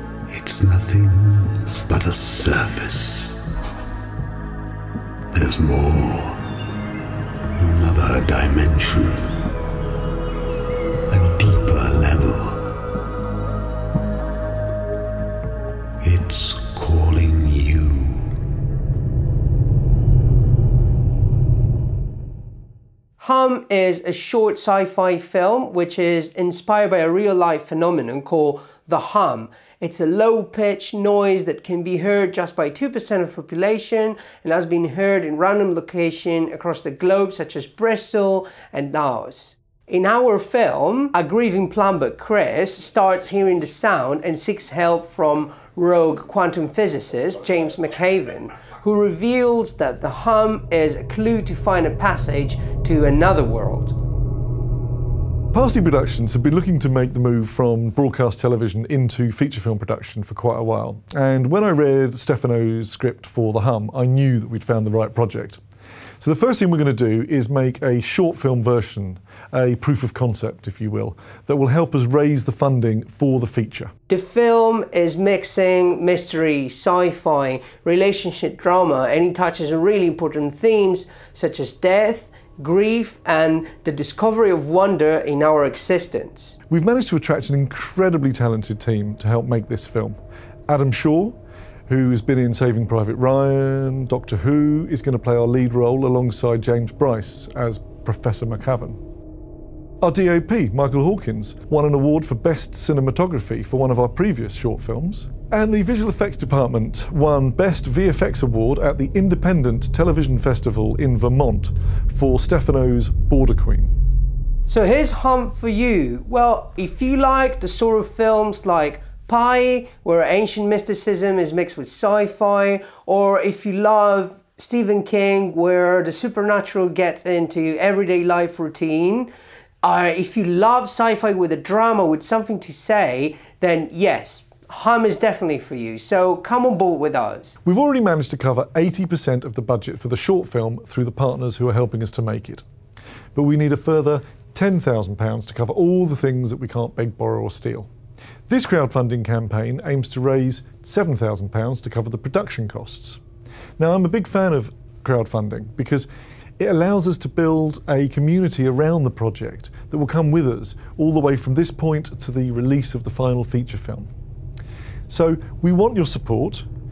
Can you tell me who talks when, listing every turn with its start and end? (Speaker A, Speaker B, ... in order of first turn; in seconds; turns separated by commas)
Speaker A: 0.3-3.4, Speaker A: 5.3-6.4, Speaker A: 7.6-9.3, Speaker A: 11.1-12.6, Speaker A: 16.0-18.3, Speaker B: 23.2-54.0, Speaker C: 55.5-65.6, Speaker C: 66.2-73.9, Speaker B: 74.1-86.5, Speaker C: 86.7-91.4, Speaker C: 91.9-99.0, Speaker C: 100.0-113.9, Speaker B: 114.7-129.3, Speaker B: 129.8-137.5, Speaker C: 137.7-142.6, Speaker C: 143.3-147.9, Speaker C: 148.5-153.2, Speaker C: 153.8-164.1, Speaker C: 165.1-166.7